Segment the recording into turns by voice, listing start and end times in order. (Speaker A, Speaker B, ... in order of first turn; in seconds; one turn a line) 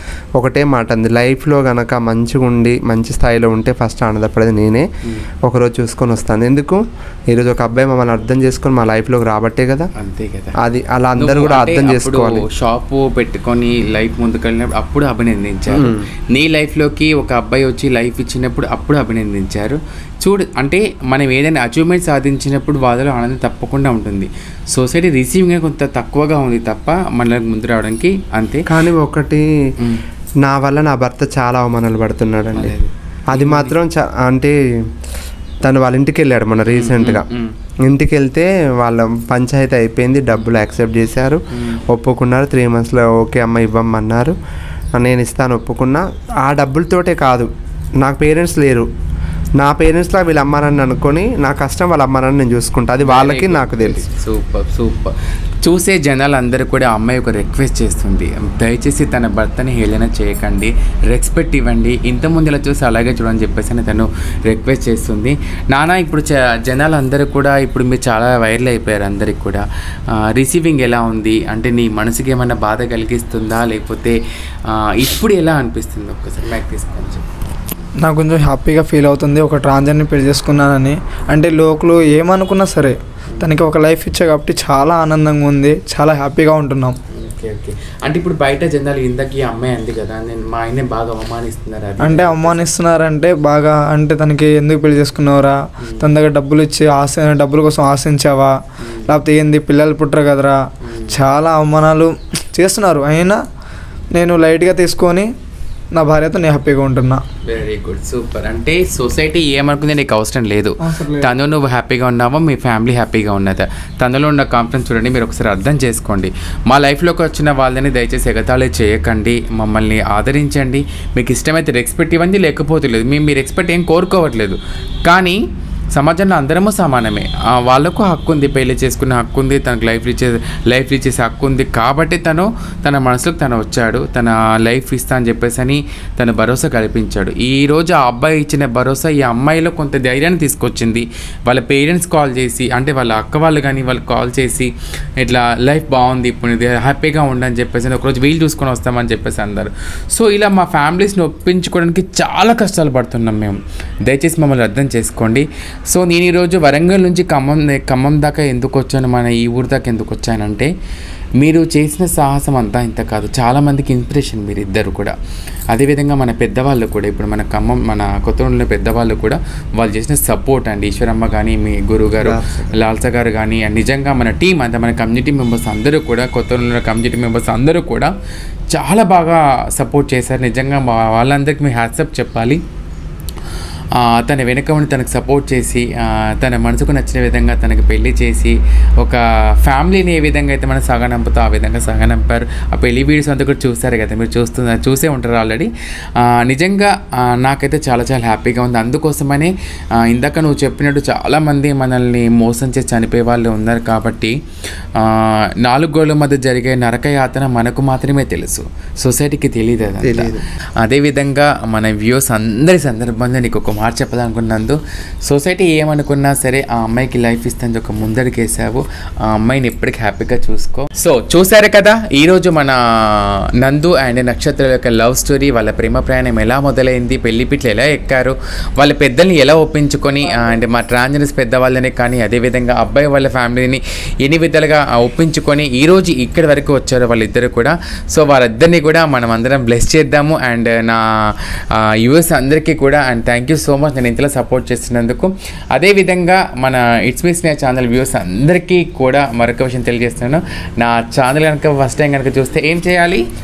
Speaker A: 0.4-4.9
Speaker A: 5.4-9.9
Speaker B: 9.9-10.6
Speaker A: 10.6-12.4
Speaker B: 11.2-28.7
Speaker A: 15.7-16.1
Speaker A: 28.7-29.5
Speaker A: 30.4-32.7
Speaker B: 32.5-33.8
Speaker A: 33.3-34.6
Speaker A: 35.6-37.2
Speaker B: 36.7-37.5
Speaker A: 37.8-44.4
Speaker B: 41.5-41.8
Speaker A: 45.0-48.9
Speaker A: 49.6-54.0
Speaker B: 53.0-77.2
Speaker C: 78.0-87.0
Speaker B: 83.3-83.6
Speaker B: 87.1-92.6
Speaker C: 92.0-103.4
Speaker B: 95.8-96.1
Speaker B: 98.8-99.1
Speaker B: 100.8-101.2
Speaker C: 104.1-105.3
Speaker C: 105.9-107.2
Speaker B: 107.5-160.7
Speaker C: 110.8-111.3
Speaker B: 161.4-165.2
Speaker B: 165.7-178.1
Speaker A: 172.2-172.8
Speaker B: 178.7-182.6
Speaker B: 183.9-204.4
Speaker B: 204.9-253.3
Speaker A: 210.0-210.4